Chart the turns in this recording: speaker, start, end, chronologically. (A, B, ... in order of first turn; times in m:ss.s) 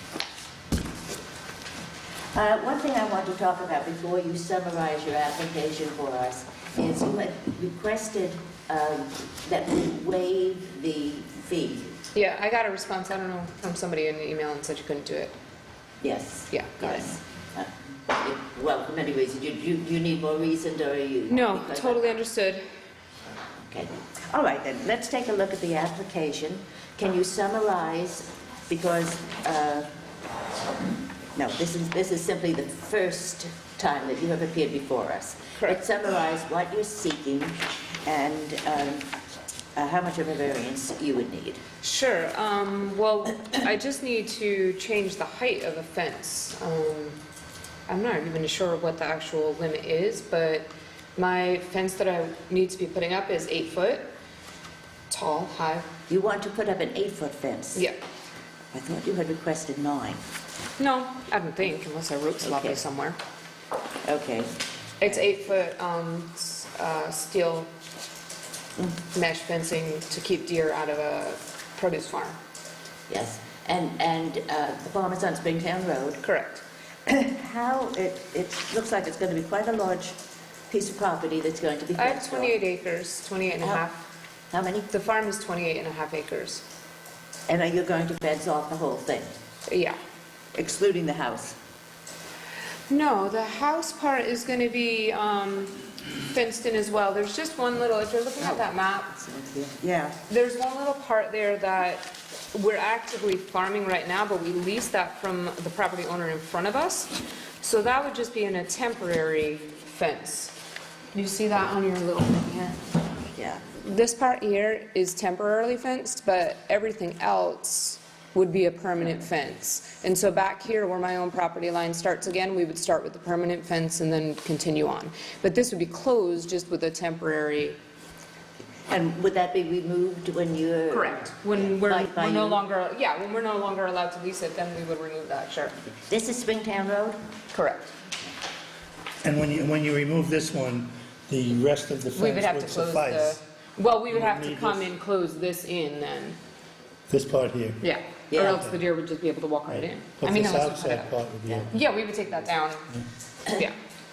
0:02.3-0:11.9 A
0:12.1-0:15.3 B
0:16.0-0:22.0 A
0:16.5-0:17.0 B
0:21.3-0:22.6 B
0:23.6-0:29.9 A
0:31.3-0:39.1 A
0:39.7-0:41.6 A
0:41.8-0:47.2 B
0:47.9-0:54.1 B
0:55.1-0:55.9 B
0:56.1-0:57.8 A
0:58.7-1:00.2 A
1:00.8-1:03.2 B
1:02.4-1:02.8 A
1:04.0-1:05.2 A
1:05.0-1:07.7 B
1:09.1-1:12.4 B
1:13.1-1:16.2 A
1:16.2-1:16.6 B
1:17.1-1:20.2 A
1:20.7-1:22.5 A
1:22.0-1:24.0 B
1:24.5-1:24.9 A
1:24.9-1:26.6 B
1:27.5-1:29.3 A
1:29.7-1:30.0 B
1:30.5-1:31.6 A
1:32.9-1:39.1 B
1:38.4-1:40.2 A
1:40.3-1:50.6 B
1:51.1-1:52.8 B
1:53.3-1:53.6 A
1:53.7-2:07.8 B
2:08.9-2:12.6 A
2:10.9-2:15.7 B
2:16.1-2:17.2 A
2:17.5-2:17.9 B
2:19.2-2:23.4 C
2:22.2-2:26.4 B
2:24.1-2:24.9 C
2:27.1-2:27.8 C
2:27.8-2:32.9 B
2:28.3-2:28.6 A
2:28.4-2:28.8 C
2:29.7-2:31.8 C